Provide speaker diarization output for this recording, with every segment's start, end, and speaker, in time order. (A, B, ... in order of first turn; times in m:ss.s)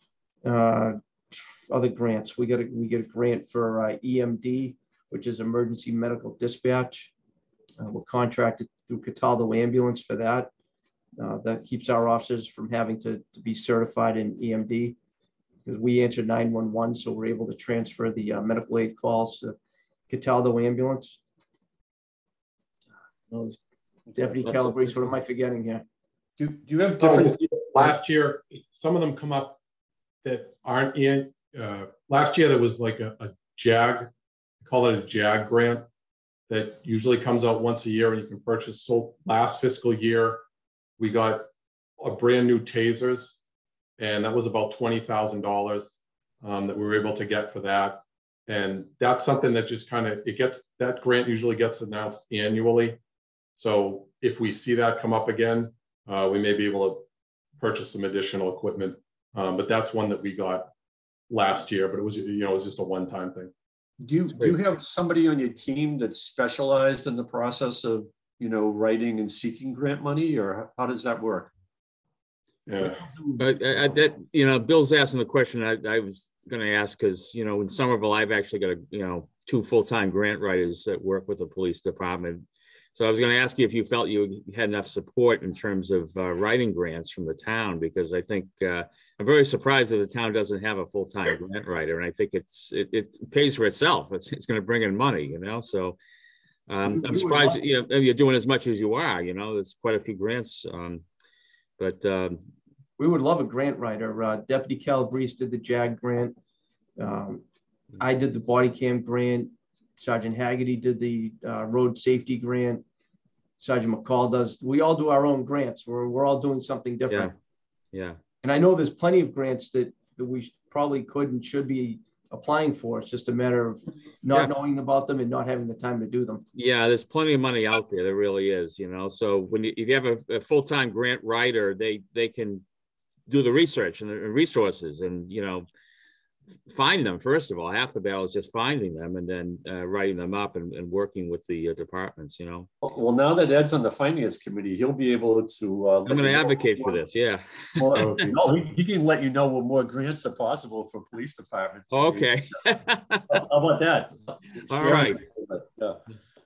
0:00.4-0:07.1 A
0:07.8-0:10.5 A
0:11.2-0:15.0 A
0:15.6-0:19.5 A
0:20.1-0:21.2 A
0:23.3-0:23.6 A
0:24.1-0:25.8 A
0:26.4-0:28.0 B
0:27.0-0:29.6 C
0:30.2-0:34.1 C
0:34.6-0:35.9 C
0:36.5-0:40.4 C
0:41.0-0:41.5 C
0:42.0-0:43.4 C
0:44.0-0:53.0 C
0:53.6-0:57.0 C
0:57.6-1:00.7 C
1:01.3-1:03.5 C
1:04.0-1:11.5 B
1:12.7-1:13.1 C
1:12.8-1:13.5 A
1:13.4-1:22.4 D
1:23.0-1:36.0 D
1:36.7-1:41.0 D
1:36.9-1:37.6 A
1:41.8-1:42.4 D
1:43.0-1:46.3 A
1:47.0-1:47.4 A
1:48.0-1:52.8 A
1:53.6-1:57.3 A
1:57.9-1:58.2 D
1:58.4-2:06.4 A
2:06.5-2:12.6 D
2:13.3-2:15.7 D
2:16.7-2:22.7 D
2:22.8-2:27.0 B
2:26.0-2:28.2 D
2:27.8-2:32.4 B
2:27.9-2:28.3 C
2:31.9-2:33.4 D
2:33.3-2:36.0 B
2:34.7-2:35.2 D